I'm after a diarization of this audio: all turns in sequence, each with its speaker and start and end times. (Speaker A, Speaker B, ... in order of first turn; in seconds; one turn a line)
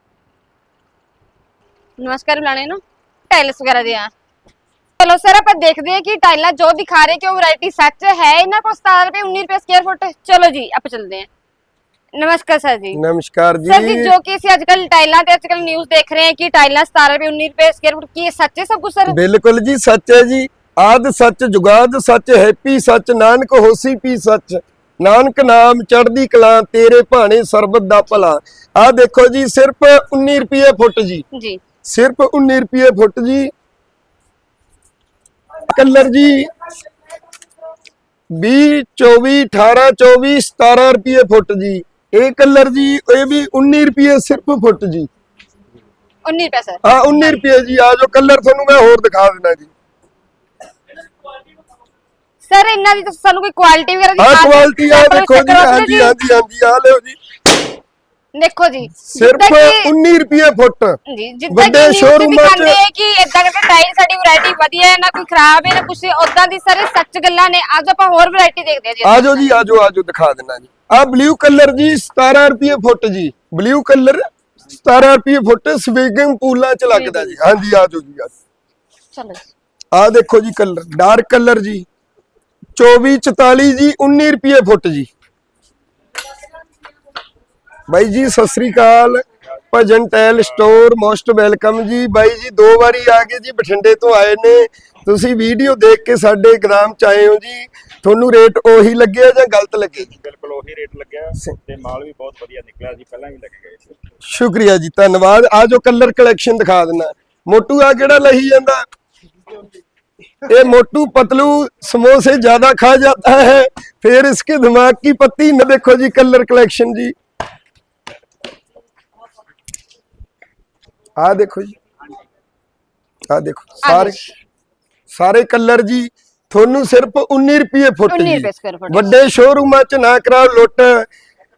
Speaker A: 2.0-4.1
Speaker A: 5.0-11.3
Speaker A: 12.1-13.0
Speaker B: 12.9-14.1
Speaker A: 13.7-19.1
Speaker B: 19.1-31.2
Speaker A: 31.3-31.6
Speaker B: 31.8-33.5
Speaker B: 35.7-36.5
Speaker B: 38.4-45.1
Speaker A: 46.2-46.8
Speaker B: 46.8-49.7
Speaker A: 52.5-56.1
Speaker B: 54.2-57.2
Speaker A: 58.3-59.9
Speaker B: 59.0-61.0
Speaker A: 61.1-69.6
Speaker B: 61.5-62.8
Speaker B: 69.0-74.2
Speaker B: 74.8-78.3
Speaker A: 76.9-77.3
Speaker A: 79.1-79.5
Speaker B: 79.9-81.8
Speaker B: 82.8-85.1
Speaker B: 87.9-100.1
Speaker C: 100.1-104.0
Speaker B: 104.2-108.8
Speaker B: 110.4-117.1
Speaker B: 121.2-121.7
Speaker B: 123.3-124.2
Speaker A: 123.8-124.2
Speaker B: 125.1-131.1
Speaker A: 128.1-129.2